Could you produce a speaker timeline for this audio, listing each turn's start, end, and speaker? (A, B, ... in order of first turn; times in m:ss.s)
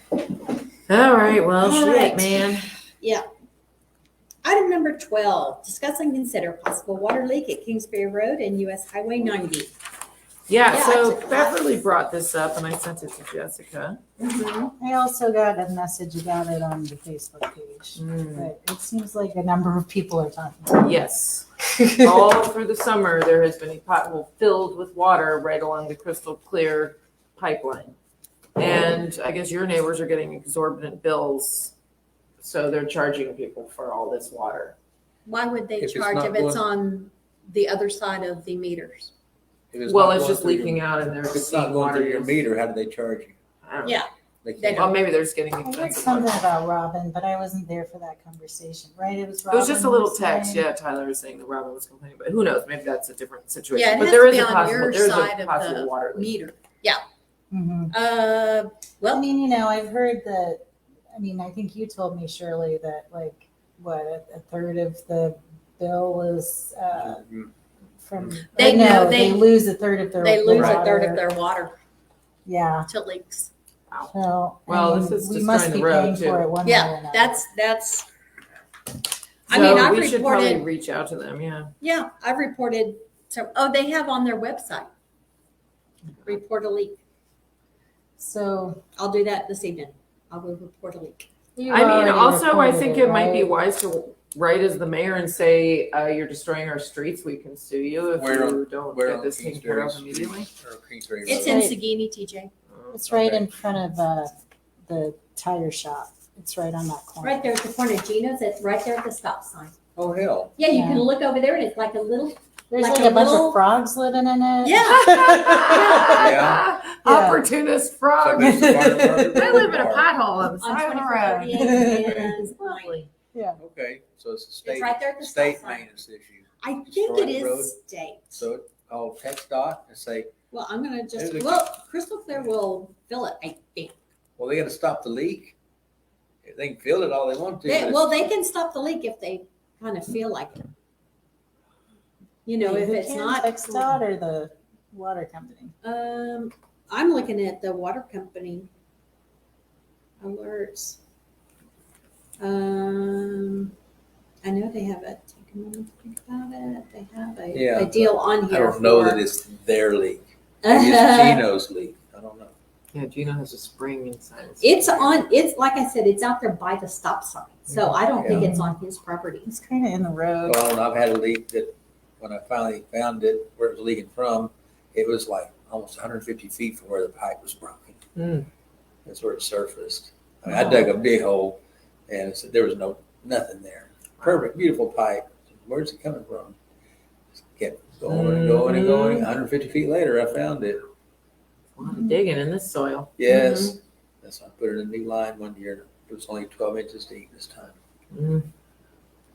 0:00.9-0:02.7 A
0:01.6-0:03.2 B
0:04.4-0:09.7 B
0:10.5-0:14.0 A
0:10.7-0:11.7 B
0:14.2-0:14.7 B
0:14.8-0:21.0 C
0:18.0-0:18.5 A
0:20.8-0:28.0 A
0:21.8-0:22.3 C
0:28.6-0:31.7 A
0:32.4-0:34.8 A
0:35.3-0:39.1 B
0:35.8-0:36.6 D
0:39.7-0:43.4 D
0:39.9-0:42.4 A
0:43.6-0:44.0 A
0:43.8-0:44.9 B
0:44.4-0:45.0 D
0:44.7-0:46.4 A
0:45.6-0:50.7 C
0:49.5-0:56.4 A
0:53.7-0:57.0 B
0:57.5-0:58.0 C
0:57.9-0:59.2 B
0:59.1-1:00.6 C
1:01.2-1:07.2 C
1:07.0-1:07.5 D
1:08.0-1:11.2 C
1:08.2-1:08.6 D
1:08.5-1:09.5 B
1:10.2-1:11.8 B
1:10.5-1:10.8 D
1:12.5-1:12.9 C
1:12.9-1:13.5 B
1:14.1-1:17.4 C
1:14.7-1:16.5 A
1:16.6-1:18.1 B
1:19.5-1:20.6 B
1:19.5-1:21.7 A
1:21.8-1:24.9 B
1:26.3-1:27.0 B
1:28.2-1:28.8 C
1:29.0-1:31.3 B
1:31.6-1:33.6 C
1:31.7-1:40.5 A
1:38.2-1:41.7 D
1:41.2-1:42.5 B
1:41.4-1:41.8 C
1:42.7-1:43.0 A
1:42.9-1:44.3 C
1:43.1-1:43.4 D
1:44.9-1:47.5 C
1:47.2-1:49.8 B
1:50.0-1:50.6 D
1:50.6-1:53.6 B
1:50.7-1:51.1 C
1:52.7-1:56.3 C
1:54.6-1:56.2 B
1:54.8-2:03.1 A
1:56.1-1:56.7 D
1:57.0-1:57.5 C
1:58.2-2:00.1 D
1:58.4-1:59.5 C
2:00.6-2:02.9 B
2:01.5-2:02.1 C
2:01.9-2:02.3 D
2:03.3-2:03.6 C
2:03.6-2:07.8 D
2:04.6-2:06.0 B
2:06.6-2:08.5 B
2:08.3-2:10.3 D
2:10.5-2:14.0 B
2:11.2-2:11.8 D
2:14.4-2:15.5 D
2:16.4-2:18.3 D
2:17.6-2:20.7 B
2:22.5-2:24.0 B
2:22.6-2:25.7 C
2:25.8-2:28.7 B
2:30.2-2:31.0 B
2:32.4-2:33.7 B
2:34.4-2:39.2 B
2:37.5-2:42.5 D
2:40.6-2:41.5 B
2:42.9-2:45.2 A
2:44.6-2:49.5 B
2:47.7-2:48.0 A
2:48.2-2:48.6 D
2:48.3-2:48.7 C
2:49.5-2:50.6 C
2:50.4-2:58.0 D
2:58.2-2:58.5 A
2:59.1-3:06.6 D
3:07.4-3:10.8 D
3:08.1-3:09.3 A
3:11.8-3:13.7 A
3:11.8-3:12.2 C
3:13.2-3:17.8 D
3:18.1-3:18.5 A